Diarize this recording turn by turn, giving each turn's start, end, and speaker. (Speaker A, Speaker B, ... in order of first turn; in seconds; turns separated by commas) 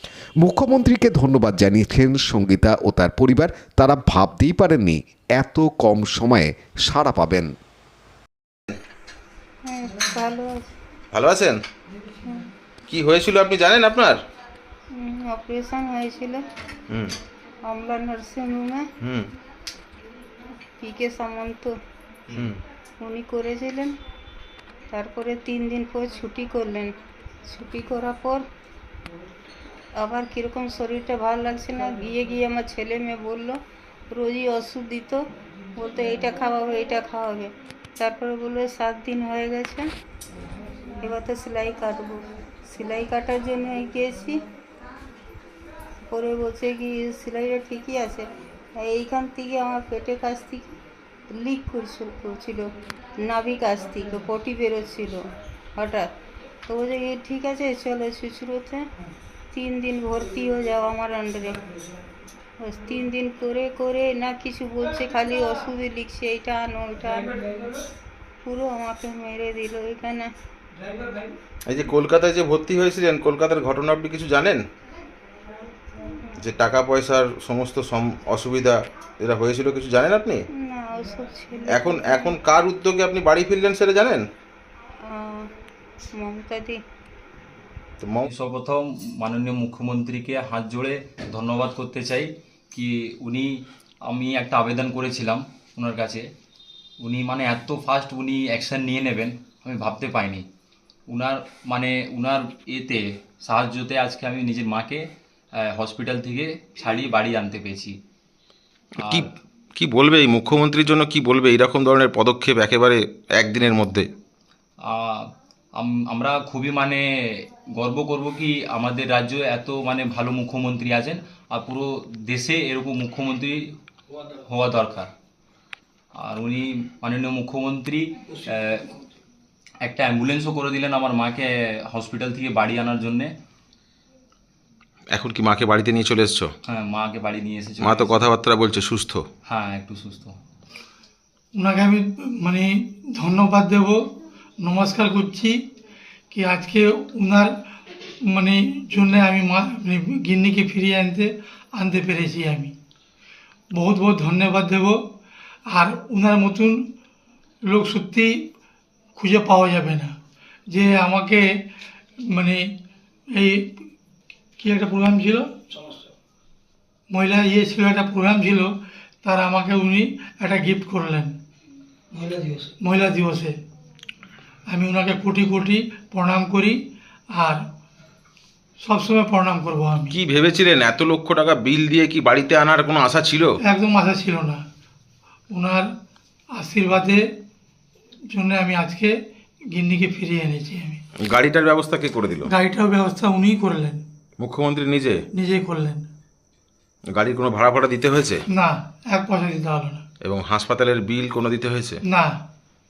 Speaker A: 0.4-7.5, Speaker B: 9.6-10.7, Speaker C: 11.1-11.6, Speaker C: 12.9-14.2, Speaker B: 14.9-16.4, Speaker C: 16.9-17.1, Speaker B: 17.6-18.9, Speaker C: 19.0-19.3, Speaker B: 20.8-21.7, Speaker C: 22.3-22.6, Speaker B: 23.0-23.9, Speaker B: 24.9-26.9, Speaker B: 27.5-28.4, Speaker B: 30.0-33.6, Speaker B: 34.1-35.2, Speaker B: 35.8-39.9, Speaker B: 41.0-44.4, Speaker B: 46.1-50.7, Speaker B: 51.3-56.1, Speaker B: 56.7-58.9, Speaker B: 59.5-61.6, Speaker B: 62.6-67.4, Speaker B: 68.4-70.3, Speaker C: 71.7-74.6, Speaker B: 76.0-76.4, Speaker C: 76.4-80.4, Speaker B: 80.5-82.3, Speaker C: 81.7-84.2, Speaker B: 85.0-85.5, Speaker B: 86.1-86.8, Speaker C: 88.0-88.3, Speaker D: 88.2-93.5, Speaker D: 94.1-96.2, Speaker D: 97.0-100.4, Speaker D: 101.1-105.0, Speaker D: 105.6-108.0, Speaker C: 109.0-114.1, Speaker D: 114.8-115.2, Speaker D: 115.8-123.6, Speaker D: 124.4-125.1, Speaker D: 126.2-129.0, Speaker D: 129.8-133.3, Speaker C: 135.1-136.5, Speaker D: 136.7-138.3, Speaker C: 137.8-139.2, Speaker D: 139.4-140.3, Speaker E: 141.6-144.1, Speaker E: 144.6-145.6, Speaker E: 146.3-147.5, Speaker E: 148.3-152.7, Speaker E: 153.7-155.0, Speaker E: 155.7-156.8, Speaker E: 157.7-158.4, Speaker E: 159.2-160.1, Speaker E: 160.7-161.5, Speaker E: 162.3-162.6, Speaker E: 163.3-163.7, Speaker E: 164.6-165.5, Speaker E: 167.1-171.3, Speaker E: 172.8-173.5, Speaker E: 174.7-176.8, Speaker E: 177.3-177.6, Speaker E: 178.8-180.1, Speaker C: 180.1-183.5, Speaker E: 183.7-184.6, Speaker E: 185.5-185.9, Speaker E: 186.5-187.2, Speaker E: 188.3-189.1, Speaker E: 189.7-191.0, Speaker C: 191.2-192.5, Speaker E: 192.5-194.0, Speaker C: 194.4-195.2, Speaker E: 195.3-196.0, Speaker C: 197.1-198.4, Speaker E: 198.5-200.0, Speaker C: 200.2-202.0, Speaker E: 202.1-202.4